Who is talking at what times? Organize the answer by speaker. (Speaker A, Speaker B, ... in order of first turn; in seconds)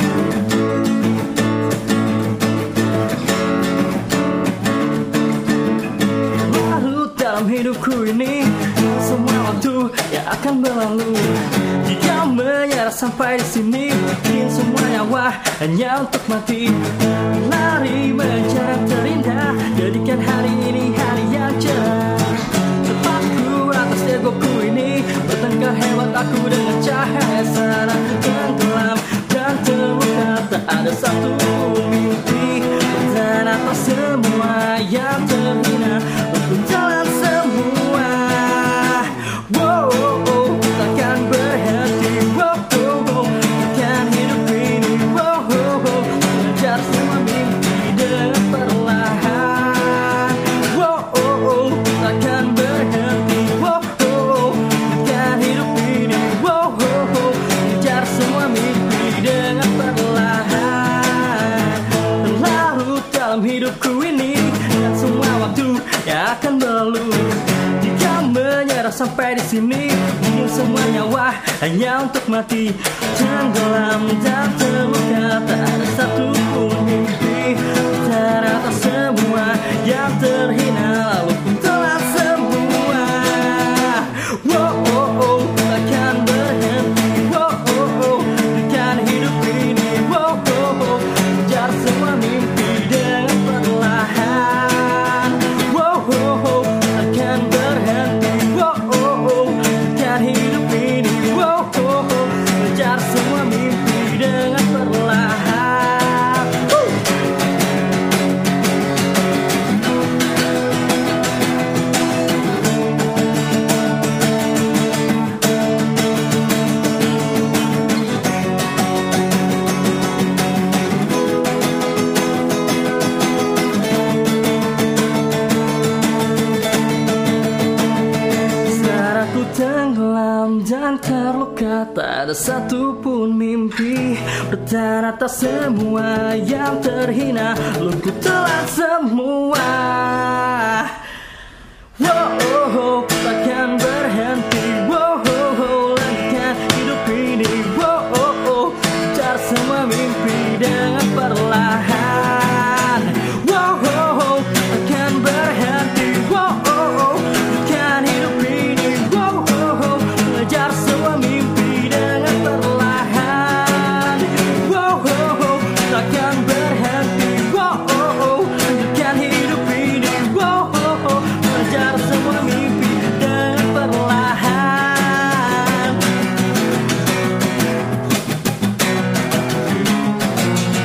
Speaker A: 6.3-107.0, 128.7-141.0, 142.0-176.0